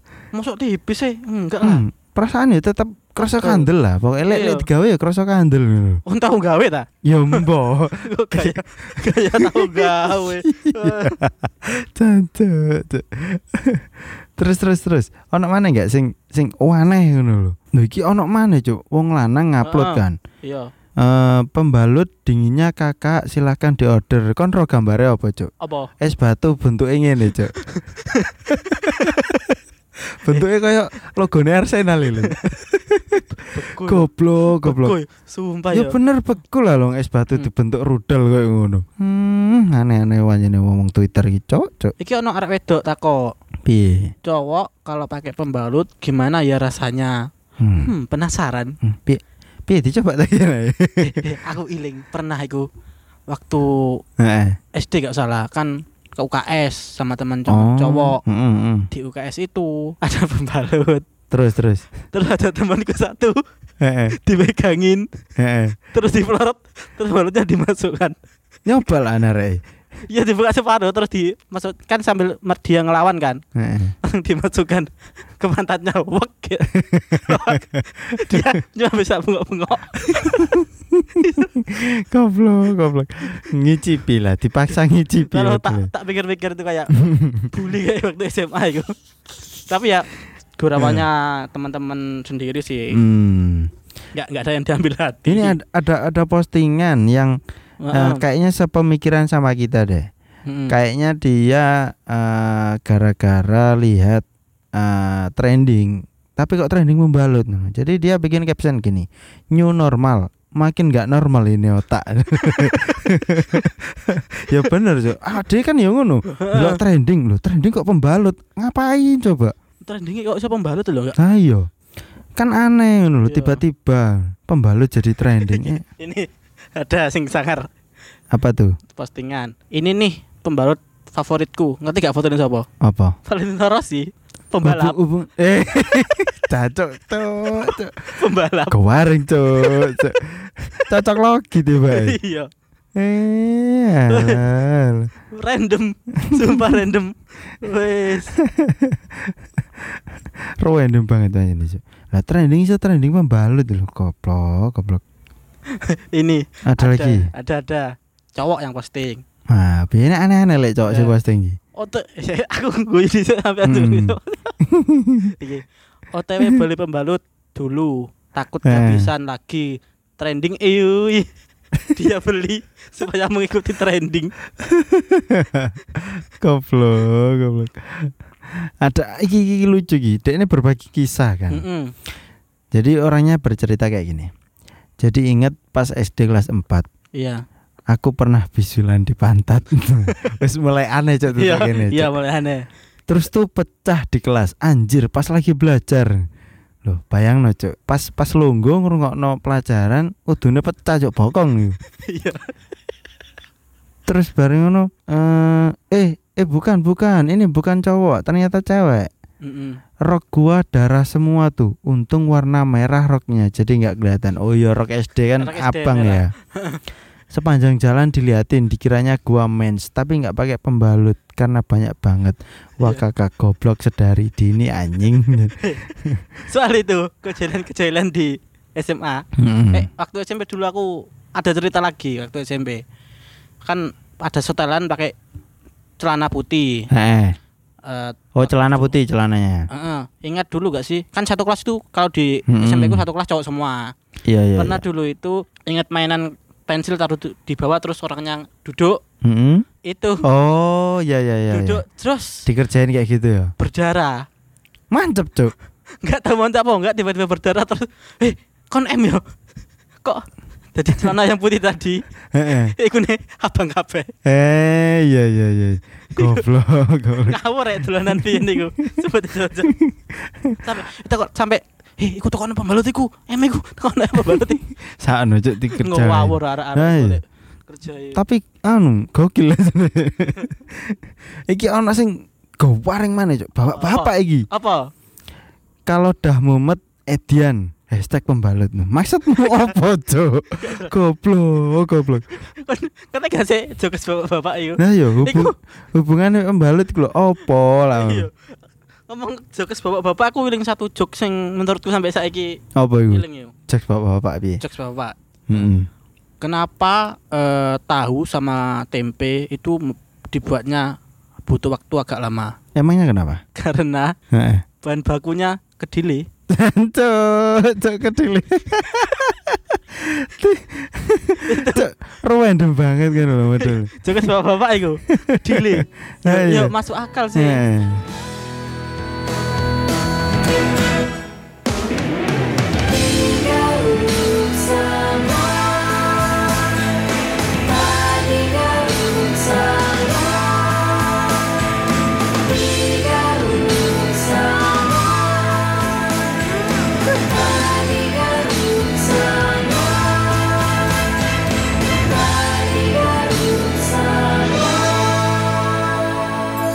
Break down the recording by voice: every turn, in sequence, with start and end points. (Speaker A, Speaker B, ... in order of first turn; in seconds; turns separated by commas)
Speaker A: 0.3-1.8, Speaker B: 1.6-6.0, Speaker A: 3.2-3.7, Speaker A: 4.3-4.7, Speaker A: 6.0-7.5, Speaker B: 7.0-20.2, Speaker A: 8.0-11.2, Speaker A: 19.6-20.7, Speaker B: 21.0-25.5, Speaker A: 25.6-25.9, Speaker B: 26.0-27.5, Speaker A: 27.6-29.2, Speaker B: 28.7-29.5, Speaker B: 30.1-35.0, Speaker A: 33.1-34.1, Speaker A: 34.6-36.0, Speaker B: 35.7-41.9, Speaker A: 42.0-43.3, Speaker B: 43.6-44.1, Speaker A: 44.2-47.2, Speaker B: 47.6-47.9, Speaker A: 47.8-48.7, Speaker B: 48.8-51.2, Speaker A: 51.0-52.7, Speaker A: 53.3-54.0, Speaker B: 54.2-54.6, Speaker A: 54.7-58.2, Speaker B: 57.5-58.9, Speaker A: 58.9-61.0, Speaker B: 61.3-61.9, Speaker A: 62.1-63.4, Speaker B: 63.8-64.2, Speaker A: 64.1-65.0, Speaker B: 65.4-65.8, Speaker A: 65.9-68.2, Speaker B: 68.7-69.6, Speaker A: 70.1-73.4, Speaker B: 73.5-73.9, Speaker A: 74.0-74.9, Speaker A: 75.4-80.6, Speaker B: 76.7-78.5, Speaker B: 80.5-85.9, Speaker A: 81.2-81.6, Speaker A: 85.2-88.9, Speaker B: 87.0-87.5, Speaker A: 89.5-93.0, Speaker B: 90.8-91.0, Speaker B: 92.9-93.7, Speaker A: 94.1-95.6, Speaker B: 95.2-97.3, Speaker A: 97.8-98.2, Speaker B: 97.9-100.1, Speaker A: 100.5-100.7, Speaker B: 100.7-104.2, Speaker B: 104.8-119.5, Speaker A: 112.5-112.9, Speaker A: 116.4-116.8, Speaker A: 119.8-121.2, Speaker B: 121.2-121.7, Speaker B: 122.4-125.8, Speaker A: 123.2-123.6, Speaker A: 125.5-127.7, Speaker B: 128.3-128.7, Speaker A: 128.9-132.7, Speaker B: 132.8-133.1, Speaker A: 133.2-135.0, Speaker B: 134.6-138.1, Speaker A: 137.7-138.8, Speaker B: 138.7-142.2, Speaker A: 139.5-140.0, Speaker A: 141.8-142.5, Speaker B: 142.9-145.1, Speaker A: 144.1-144.4, Speaker A: 145.3-148.4, Speaker B: 146.2-146.7, Speaker B: 148.3-150.0, Speaker B: 150.6-155.0, Speaker A: 155.7-159.2, Speaker B: 156.7-157.3, Speaker B: 159.5-161.6, Speaker A: 160.9-161.1, Speaker A: 161.8-164.5, Speaker B: 163.6-165.3, Speaker A: 165.4-171.3, Speaker B: 168.6-169.1, Speaker A: 171.9-174.3, Speaker B: 174.6-178.1, Speaker B: 178.8-181.6, Speaker A: 181.5-181.9, Speaker B: 182.7-184.3, Speaker B: 185.0-186.8, Speaker A: 187.2-187.4, Speaker B: 187.9-192.1, Speaker A: 191.3-192.6, Speaker B: 193.1-196.2, Speaker B: 196.8-201.8, Speaker A: 202.1-202.5, Speaker B: 204.1-209.1, Speaker A: 209.4-209.8, Speaker B: 210.0-216.3, Speaker A: 215.4-216.8, Speaker B: 217.3-226.2, Speaker A: 225.6-225.9, Speaker A: 226.5-232.8, Speaker B: 229.4-229.9, Speaker A: 233.6-235.1, Speaker A: 236.0-236.9, Speaker B: 236.9-237.4, Speaker A: 237.8-238.9, Speaker B: 238.3-239.7, Speaker A: 239.7-243.9, Speaker B: 242.5-243.1, Speaker B: 244.2-244.8, Speaker A: 244.6-249.0, Speaker B: 249.2-249.7, Speaker A: 249.8-250.2, Speaker B: 250.2-251.8, Speaker A: 251.5-252.4, Speaker B: 252.4-253.5, Speaker A: 253.6-254.2, Speaker B: 254.9-255.5, Speaker A: 256.0-259.2, Speaker A: 260.7-262.0, Speaker B: 262.3-262.7, Speaker A: 262.7-264.1, Speaker B: 264.2-267.4, Speaker A: 266.1-266.4, Speaker A: 267.3-269.7, Speaker B: 268.1-268.6, Speaker B: 269.6-270.6, Speaker A: 270.6-274.6, Speaker B: 274.3-277.2, Speaker A: 275.8-278.2, Speaker B: 278.1-281.0, Speaker B: 281.5-284.4, Speaker A: 283.7-284.9, Speaker B: 285.9-292.2, Speaker A: 290.6-290.9, Speaker A: 292.4-295.5, Speaker B: 294.8-298.3, Speaker A: 297.9-298.5, Speaker A: 299.1-303.5, Speaker B: 302.8-304.6, Speaker A: 304.6-305.6, Speaker B: 305.5-305.9, Speaker A: 306.4-310.9, Speaker A: 311.4-312.5, Speaker B: 312.7-313.4, Speaker A: 313.6-314.1, Speaker B: 314.3-314.6, Speaker A: 314.8-316.2, Speaker B: 316.5-323.9, Speaker A: 321.4-321.9, Speaker A: 323.6-327.6, Speaker B: 325.1-326.7, Speaker B: 327.3-328.1, Speaker C: 332.9-336.7, Speaker C: 337.5-341.6, Speaker C: 342.3-346.2, Speaker C: 347.0-350.8, Speaker C: 351.9-355.2